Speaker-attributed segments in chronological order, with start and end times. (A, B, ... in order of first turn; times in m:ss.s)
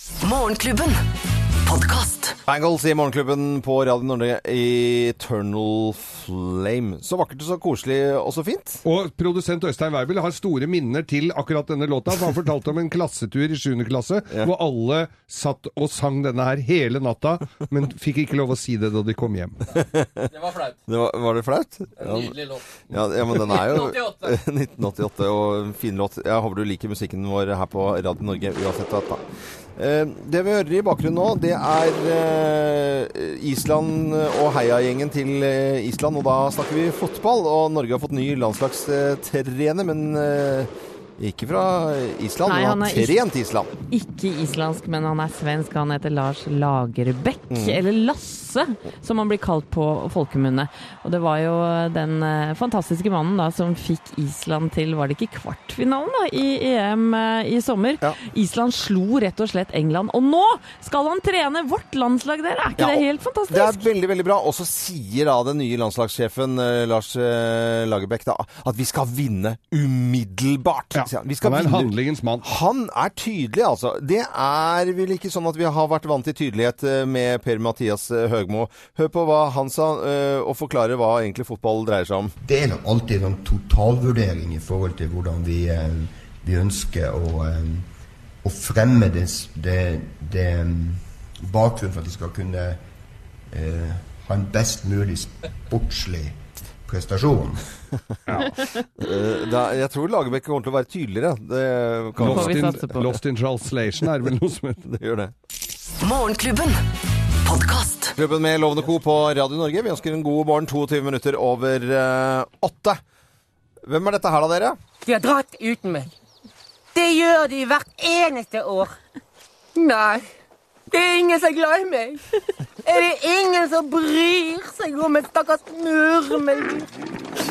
0:00.2-0:01.0 A
0:01.6-0:02.4 A
0:02.4-0:08.8 B
0:08.8-0:19.6 C
0:19.8-0:20.3 B
0:20.3-0:20.8 D
0:20.9-0:29.2 B
0:22.0-0:24.4 D
0:29.8-0:43.7 B
0:42.4-0:43.2 E
0:43.9-1:03.8 E
0:47.5-0:47.8 B
1:02.8-1:22.3 B
1:11.0-1:12.4 C
1:22.4-1:27.9 F
1:28.4-1:32.8 F
1:33.5-1:37.7 F
1:38.3-1:38.7 C
1:39.0-1:42.7 B
1:42.2-1:44.8 C
1:42.2-1:43.0 E
1:44.8-1:45.3 B
1:46.0-1:46.8 A
1:47.4-1:48.2 A
1:48.2-1:53.0 B
1:53.8-1:54.8 B
1:55.0-1:56.1 G
1:56.9-1:58.9 G
1:59.8-2:00.2 G
2:00.9-2:02.2 G
2:02.8-2:06.8 G